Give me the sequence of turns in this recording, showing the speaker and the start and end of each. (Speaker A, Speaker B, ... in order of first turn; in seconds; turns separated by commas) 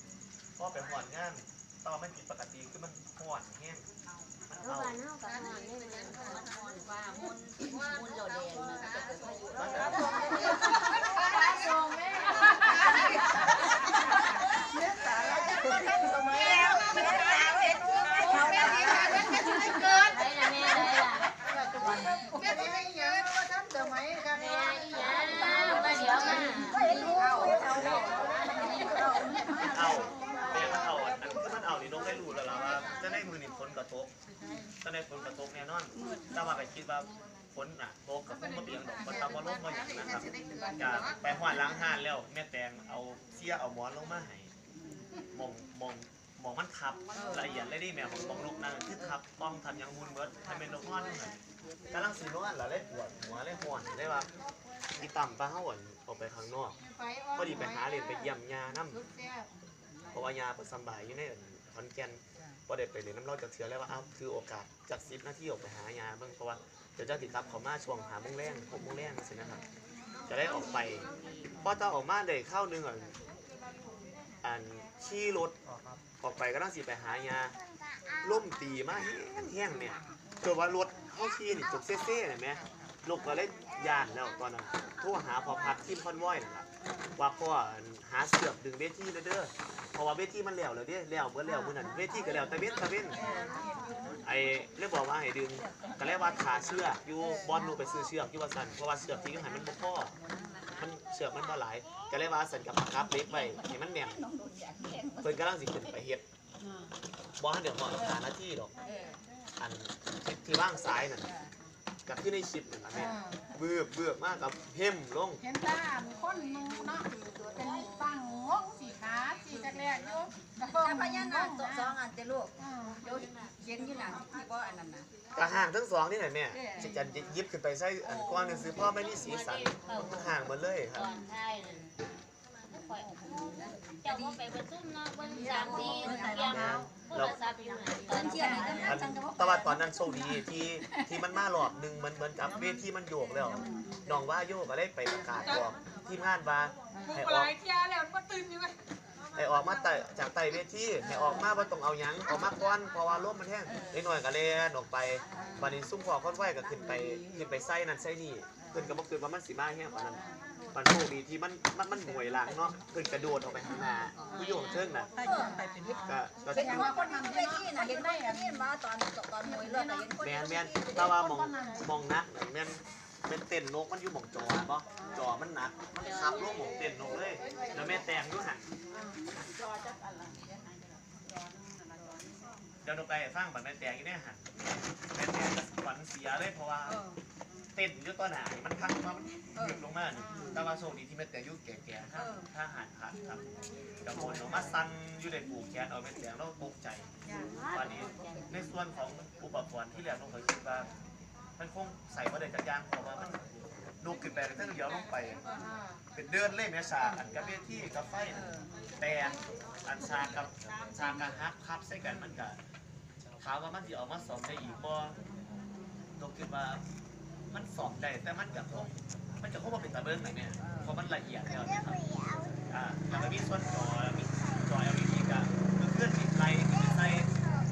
Speaker A: 0.6-3.9, Speaker A: 4.5-5.0, Speaker B: 4.6-10.3, Speaker C: 6.1-6.4, Speaker C: 7.8-11.7, Speaker A: 9.6-10.2, Speaker D: 9.9-10.5, Speaker D: 11.2-13.2, Speaker C: 12.3-13.3, Speaker C: 14.8-20.2, Speaker D: 16.1-16.7, Speaker D: 18.1-31.1, Speaker B: 20.1-21.3, Speaker C: 21.8-31.0, Speaker B: 24.3-26.8, Speaker A: 29.7-34.1, Speaker A: 34.8-44.5, Speaker C: 39.3-41.1, Speaker A: 45.3-51.4, Speaker C: 47.1-47.4, Speaker A: 51.9-54.3, Speaker A: 55.0-56.8, Speaker D: 56.8-58.3, Speaker A: 57.3-59.0, Speaker D: 58.9-59.5, Speaker A: 60.1-69.6, Speaker A: 70.2-71.1, Speaker A: 71.6-73.1, Speaker A: 74.4-77.5, Speaker A: 78.2-86.7, Speaker A: 87.2-93.2, Speaker C: 93.1-94.1, Speaker A: 94.2-100.1, Speaker C: 95.8-96.5, Speaker A: 100.8-104.2, Speaker C: 103.4-105.3, Speaker A: 105.2-106.2, Speaker D: 106.6-106.9, Speaker A: 107.4-108.7, Speaker C: 108.8-109.2, Speaker A: 109.6-111.3, Speaker A: 112.0-115.4, Speaker D: 113.0-113.4, Speaker D: 115.4-122.0, Speaker C: 117.5-118.0, Speaker C: 120.6-125.1, Speaker D: 122.6-123.0, Speaker A: 125.3-131.1, Speaker C: 126.5-126.9, Speaker C: 128.1-128.8, Speaker B: 129.0-130.2, Speaker B: 130.9-131.9, Speaker B: 132.7-139.0, Speaker C: 133.4-134.4, Speaker C: 135.3-136.8, Speaker A: 136.5-137.4, Speaker C: 138.0-139.8, Speaker A: 138.8-147.5, Speaker C: 140.9-141.2, Speaker D: 147.3-148.7, Speaker A: 149.3-165.1, Speaker C: 151.0-151.4, Speaker C: 153.7-154.1, Speaker C: 155.3-155.7, Speaker C: 156.8-157.2, Speaker D: 164.3-165.7, Speaker C: 165.2-171.1, Speaker A: 166.0-166.9, Speaker D: 166.6-168.7, Speaker D: 169.4-170.1, Speaker A: 170.2-178.7, Speaker D: 170.9-171.9, Speaker D: 175.0-175.3, Speaker B: 176.0-176.7, Speaker D: 177.4-177.9, Speaker D: 178.9-179.2, Speaker D: 181.2-182.6, Speaker A: 182.8-184.6, Speaker A: 185.1-187.0, Speaker D: 186.9-187.6, Speaker A: 187.7-193.4, Speaker D: 190.2-190.5, Speaker A: 194.0-197.1, Speaker A: 197.7-200.9, Speaker A: 201.6-203.4, Speaker A: 204.0-205.4, Speaker A: 206.1-212.6, Speaker A: 213.2-215.2, Speaker A: 216.2-216.8, Speaker A: 217.5-222.1, Speaker A: 222.7-227.3